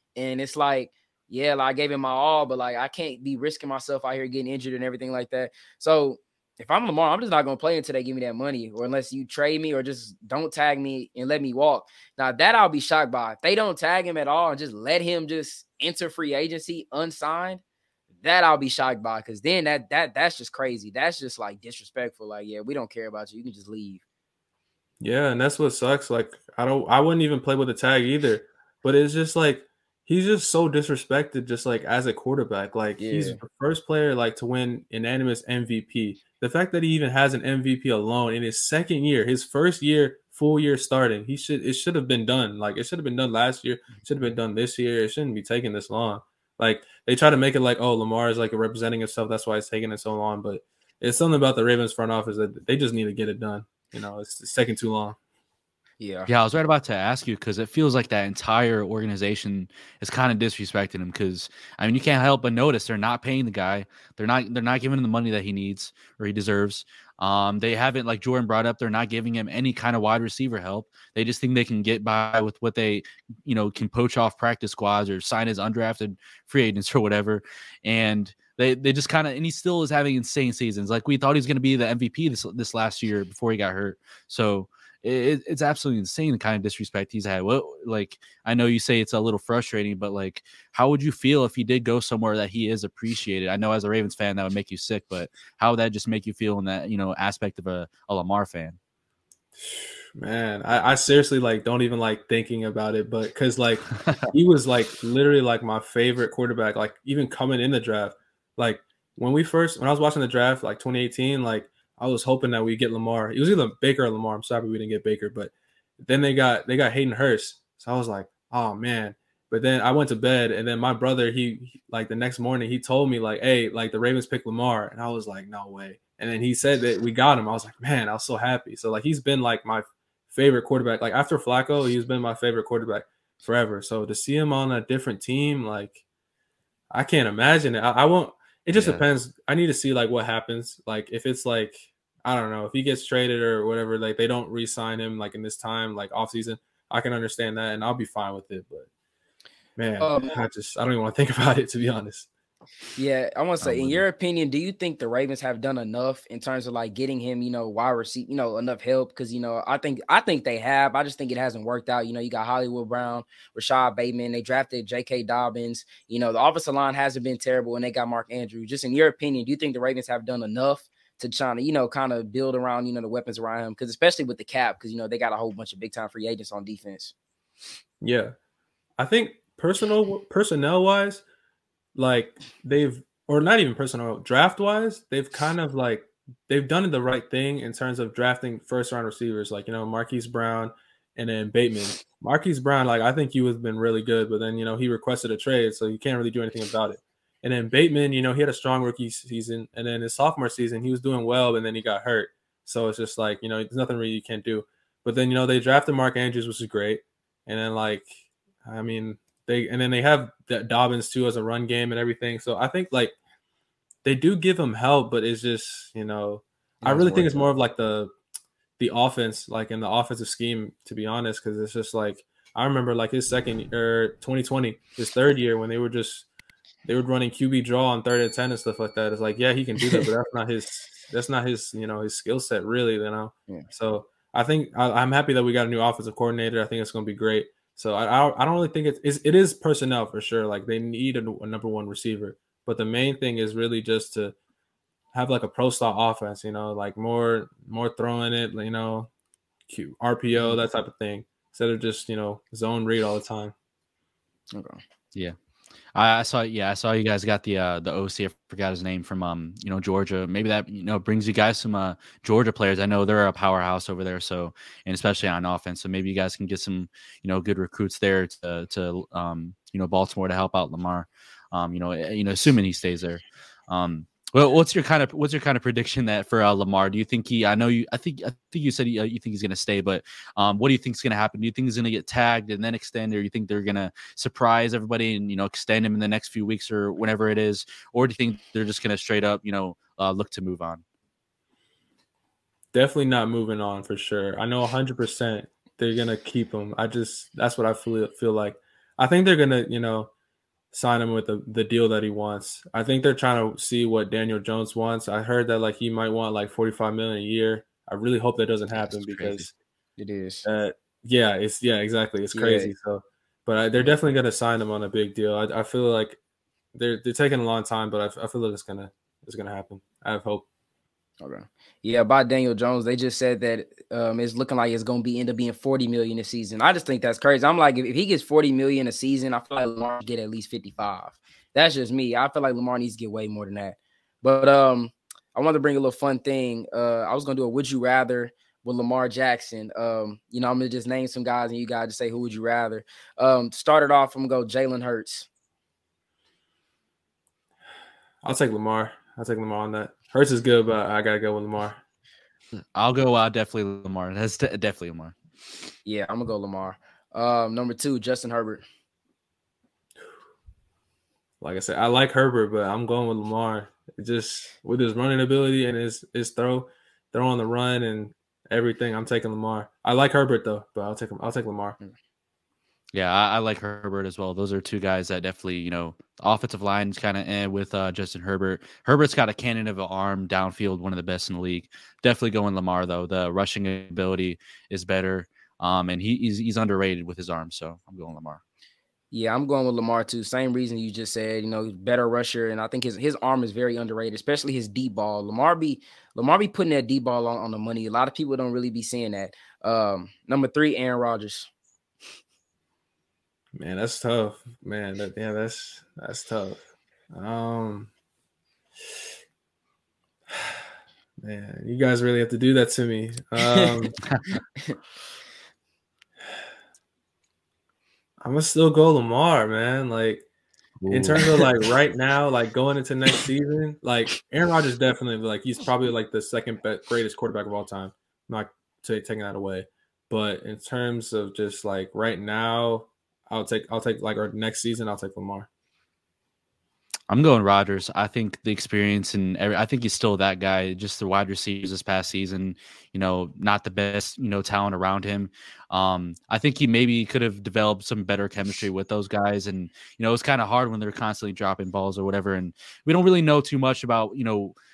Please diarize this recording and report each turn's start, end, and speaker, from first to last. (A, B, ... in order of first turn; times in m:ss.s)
0:00.2-0:17.6 A
0:18.2-0:24.0 A
0:25.0-0:55.2 B
0:33.0-0:33.4 A
0:56.0-0:56.3 A
0:56.3-1:38.8 C
1:39.6-2:16.0 B
1:44.0-1:44.3 C
2:16.9-2:28.9 B
2:18.7-2:19.0 C
2:29.8-2:32.3 B
2:30.0-2:30.4 A
2:33.0-2:57.1 A
2:33.6-2:34.0 C
2:58.0-2:58.3 B
2:59.0-3:01.2 B
3:01.9-3:33.2 B
3:34.0-3:38.1 B
3:36.8-3:37.4 A
3:38.8-3:46.2 B
3:46.8-4:04.3 B
4:05.1-4:09.1 B
4:09.7-4:13.5 B
4:14.5-4:14.8 A
4:15.9-4:50.8 C
4:52.7-5:00.1 B
5:00.7-5:09.5 B
5:08.7-5:09.5 C
5:10.0-5:10.5 A
5:10.4-5:16.2 B
5:12.3-5:12.7 A
5:16.7-5:20.4 B
5:21.2-5:45.3 A
5:48.2-5:51.8 B
5:52.7-5:55.1 C
5:55.8-5:58.6 A
6:01.4-6:11.8 B
6:12.9-6:28.4 C
6:29.1-6:41.5 A
6:43.5-6:46.6 B
6:47.1-6:47.9 B
6:50.3-6:50.6 B
6:51.2-6:53.9 B
6:58.2-7:00.2 B
7:00.8-7:01.5 C
7:00.9-7:15.5 B
7:17.1-7:34.5 C